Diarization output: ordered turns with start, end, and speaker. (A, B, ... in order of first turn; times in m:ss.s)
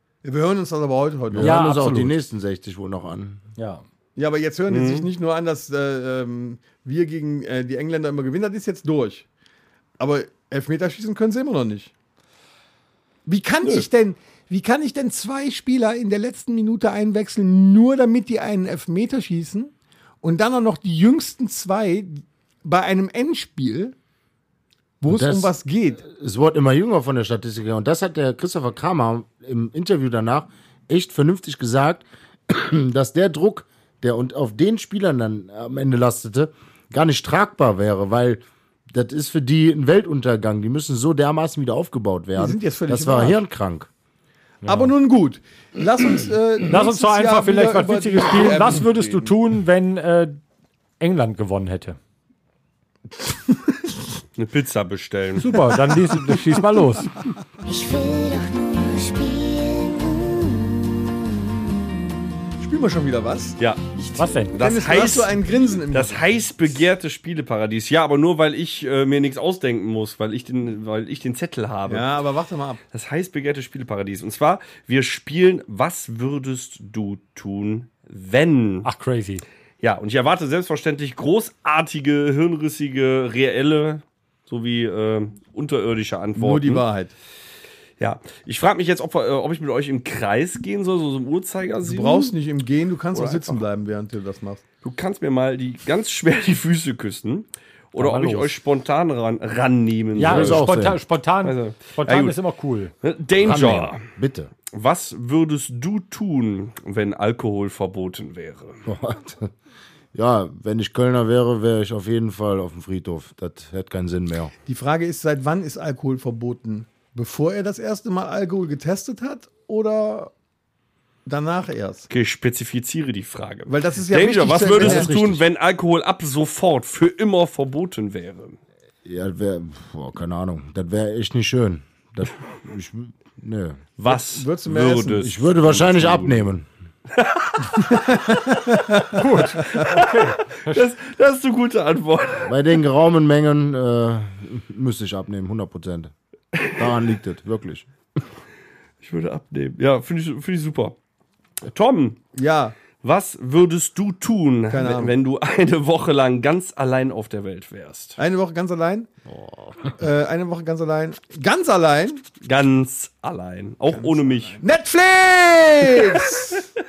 0:00.2-0:01.6 A
0:01.3-0:03.4 B
0:01.4-0:02.1 C
0:03.6-0:03.8 C
0:04.2-0:09.3 A
0:04.7-0:05.1 D
0:10.0-0:11.9 A
0:13.2-0:23.9 A
0:25.0-0:26.0 A
0:25.1-0:43.9 B
0:42.4-0:43.4 A
0:44.6-0:44.9 C
0:44.6-0:49.3 A
0:46.7-0:50.4 C
0:51.0-0:52.0 C
0:54.4-0:55.5 D
0:55.4-0:57.1 C
0:57.6-1:01.9 E
1:02.6-1:03.6 A
1:04.2-1:04.6 C
1:04.5-1:12.1 D
1:04.5-1:06.2 A
1:11.9-1:12.8 A
1:12.9-1:18.9 D
1:18.8-1:19.4 C
1:19.8-1:26.8 D
1:26.4-1:27.1 A
1:28.0-1:32.3 D
1:31.8-1:34.6 A
1:33.1-1:33.6 D
1:34.8-1:40.7 D
1:38.0-1:38.5 C
1:40.2-1:42.9 C
1:40.2-1:41.0 B
1:41.4-1:42.4 D
1:43.0-1:44.0 D
1:43.4-1:44.5 B
1:44.7-1:48.8 D
1:48.8-1:49.5 B
1:50.1-1:54.5 B
1:54.6-2:00.3 A
2:01.2-2:02.1 A
2:02.1-2:08.6 D
2:03.7-2:05.1 A
2:04.6-2:05.4 B
2:09.0-2:13.8 B
2:14.0-2:16.5 D
2:14.0-2:15.3 A
2:15.2-2:16.7 B
2:17.1-2:22.5 D
2:17.9-2:19.0 A
2:19.1-2:20.8 C
2:22.4-2:26.1 B
2:26.5-2:26.9 D
2:26.7-2:27.9 B
2:29.0-2:31.0 D
2:31.6-2:32.2 D
2:32.4-2:32.7 A
2:33.0-2:38.2 D
2:34.7-2:35.1 A
2:38.2-2:39.1 A
2:39.3-2:39.9 B
2:40.0-2:42.2 A
2:42.4-2:44.6 D
2:43.9-2:46.7 A